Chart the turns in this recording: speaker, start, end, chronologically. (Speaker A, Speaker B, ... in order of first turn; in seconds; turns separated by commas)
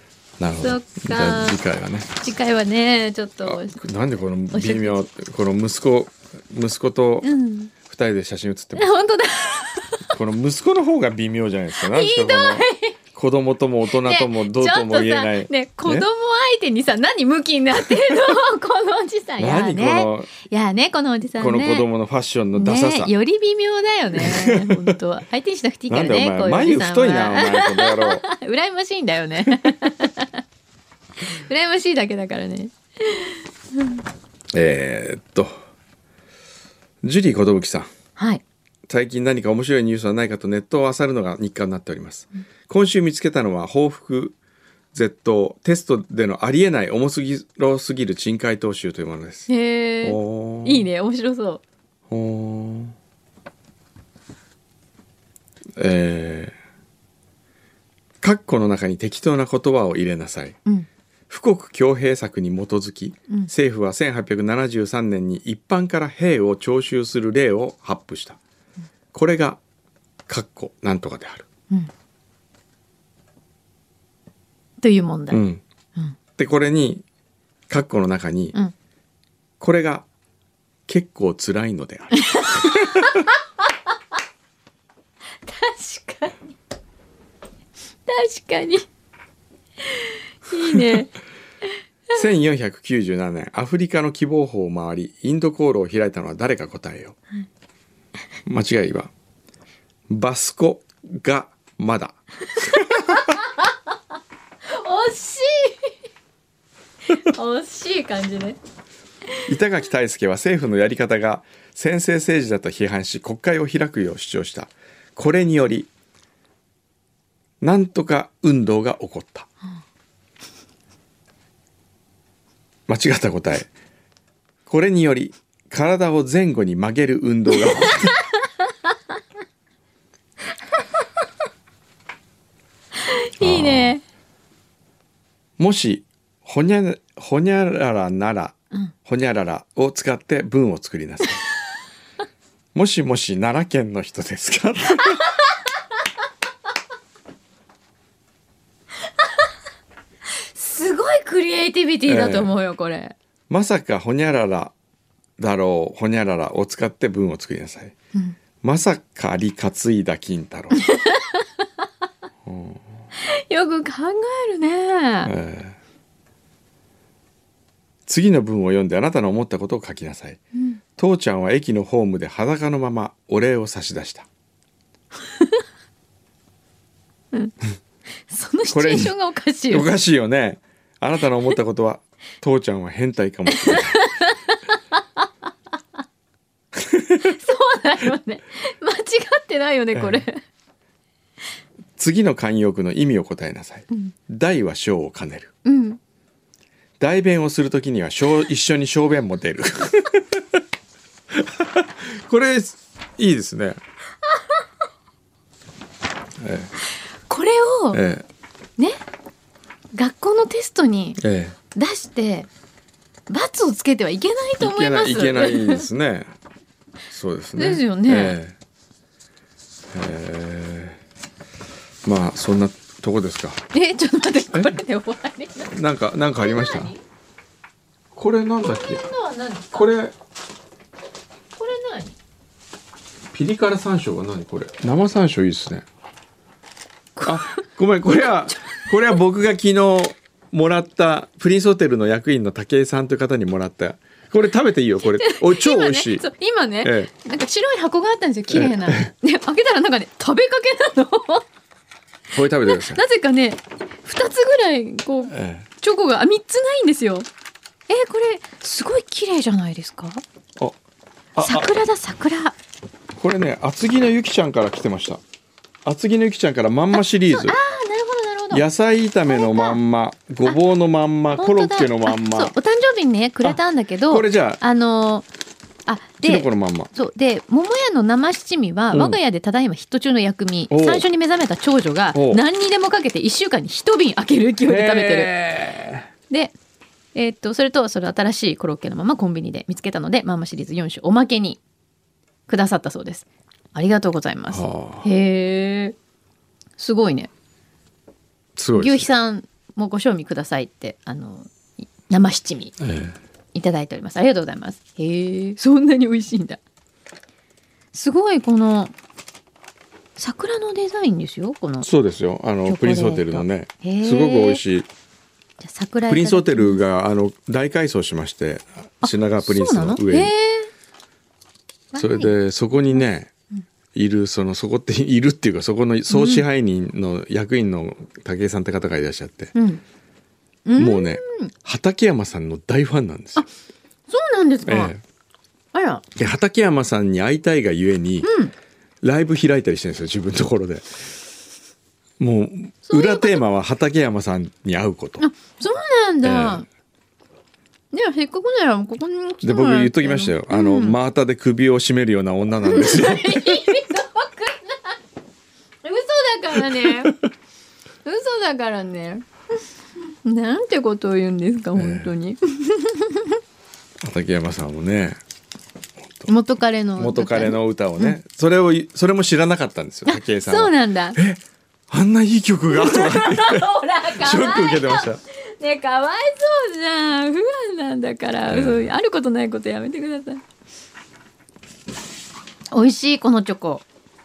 Speaker A: 0.4-2.1, Speaker B: 0.6-1.6, Speaker B: 2.1-3.8, Speaker A: 3.5-7.3, Speaker B: 4.5-5.0, Speaker B: 7.2-7.7, Speaker A: 7.8-8.9, Speaker B: 8.8-10.1, Speaker A: 10.1-16.1, Speaker B: 11.8-12.9, Speaker B: 14.0-21.9, Speaker A: 19.4-20.3, Speaker A: 21.4-23.1, Speaker B: 22.6-30.4, Speaker A: 24.1-24.9, Speaker A: 25.9-28.2, Speaker B: 31.2-34.0, Speaker A: 34.5-35.6, Speaker A: 37.0-37.9, Speaker B: 38.2-38.4, Speaker A: 38.9-44.4, Speaker A: 44.9-49.5, Speaker B: 49.5-51.6, Speaker A: 50.0-50.9, Speaker A: 52.1-53.0, Speaker A: 55.8-56.6, Speaker A: 58.2-60.6, Speaker A: 61.3-68.4, Speaker A: 69.1-69.6, Speaker A: 70.3-71.5, Speaker B: 74.8-75.4, Speaker A: 75.3-75.6, Speaker A: 76.4-77.0, Speaker A: 77.7-78.6, Speaker A: 79.6-80.1, Speaker A: 80.9-83.2, Speaker B: 82.1-83.3, Speaker B: 85.4-86.5, Speaker B: 88.1-88.9, Speaker B: 89.8-91.1, Speaker A: 92.1-97.2, Speaker A: 98.5-99.1, Speaker A: 100.1-103.2, Speaker B: 102.8-103.6, Speaker B: 104.7-105.9, Speaker B: 107.1-108.6, Speaker A: 109.5-115.9, Speaker A: 117.6-119.5, Speaker A: 122.9-123.7, Speaker A: 124.7-128.2, Speaker B: 133.1-134.0, Speaker A: 133.4-133.9, Speaker A: 135.6-141.4, Speaker A: 142.7-145.2, Speaker B: 150.4-153.1, Speaker A: 152.1-152.5, Speaker A: 153.5-154.7, Speaker A: 155.4-157.9, Speaker A: 158.6-160.9, Speaker B: 160.8-161.5, Speaker A: 162.4-162.9, Speaker B: 163.2-165.3, Speaker A: 165.2-165.8, Speaker A: 168.1-170.4, Speaker A: 171.0-174.3, Speaker B: 178.3-179.9, Speaker A: 178.7-179.1, Speaker A: 179.7-184.0, Speaker B: 183.5-184.6, Speaker A: 186.8-187.3, Speaker B: 187.2-190.4, Speaker A: 189.9-190.2, Speaker A: 192.0-195.5, Speaker B: 195.7-196.0, Speaker A: 197.0-200.6, Speaker A: 201.3-203.8, Speaker A: 206.4-206.7, Speaker B: 207.3-208.0, Speaker A: 207.9-208.2, Speaker B: 209.9-211.2, Speaker A: 211.2-211.6, Speaker B: 211.7-212.5, Speaker B: 213.3-215.9, Speaker A: 214.6-216.3, Speaker A: 217.1-218.6, Speaker B: 217.6-218.4, Speaker A: 219.9-221.0, Speaker A: 222.0-223.6, Speaker B: 223.7-225.7, Speaker A: 224.5-224.8, Speaker A: 225.7-226.9, Speaker B: 226.4-227.0, Speaker A: 228.1-229.1, Speaker B: 228.6-229.9, Speaker A: 229.7-230.2, Speaker B: 231.5-232.2, Speaker A: 233.3-235.9, Speaker B: 237.2-237.7, Speaker A: 237.2-246.2, Speaker B: 238.5-238.9, Speaker B: 245.0-251.4, Speaker A: 246.8-247.1, Speaker A: 248.5-249.1, Speaker A: 252.3-253.0, Speaker B: 252.7-257.3, Speaker A: 255.3-255.7, Speaker B: 257.9-260.2, Speaker A: 261.3-261.7, Speaker B: 261.4-262.6, Speaker A: 263.2-265.2, Speaker A: 265.8-267.6, Speaker B: 266.9-268.6, Speaker A: 268.5-272.5, Speaker B: 269.3-269.8, Speaker B: 271.4-275.3, Speaker A: 273.4-274.6, Speaker B: 275.9-285.3, Speaker A: 276.2-276.9, Speaker A: 278.9-279.2, Speaker A: 280.7-281.1, Speaker A: 282.1-282.4, Speaker A: 284.6-286.1, Speaker B: 286.3-286.5, Speaker B: 287.1-291.6, Speaker B: 292.5-296.0, Speaker A: 294.5-295.1, Speaker B: 296.8-297.3, Speaker A: 298.6-299.1, Speaker B: 298.8-302.8, Speaker A: 302.8-303.2, Speaker B: 303.5-306.6, Speaker B: 307.9-308.9, Speaker B: 310.2-311.9, Speaker A: 311.8-314.9, Speaker B: 312.7-314.6, Speaker B: 315.6-316.8, Speaker A: 316.1-320.3, Speaker B: 319.0-320.7, Speaker B: 321.9-322.3, Speaker A: 321.9-323.3, Speaker A: 323.9-329.5, Speaker B: 326.1-326.4, Speaker B: 329.5-329.8, Speaker B: 330.7-331.5, Speaker A: 330.8-333.4, Speaker B: 334.1-334.9, Speaker A: 334.6-335.0, Speaker B: 335.7-336.0, Speaker A: 336.2-338.3, Speaker B: 338.2-338.5, Speaker A: 339.0-341.0, Speaker A: 342.2-345.2, Speaker B: 342.9-343.4, Speaker B: 345.2-346.7, Speaker A: 346.2-346.6, Speaker B: 347.9-351.0, Speaker A: 349.4-353.8, Speaker B: 352.6-355.0, Speaker B: 355.8-357.2, Speaker A: 356.6-357.1, Speaker B: 358.0-359.2, Speaker B: 360.2-363.4, Speaker A: 361.8-362.1, Speaker A: 364.0-365.2, Speaker A: 366.0-366.3, Speaker B: 366.3-368.2, Speaker A: 367.0-375.2, Speaker B: 370.1-371.2, Speaker B: 372.7-380.4, Speaker A: 378.5-378.9, Speaker B: 382.7-383.8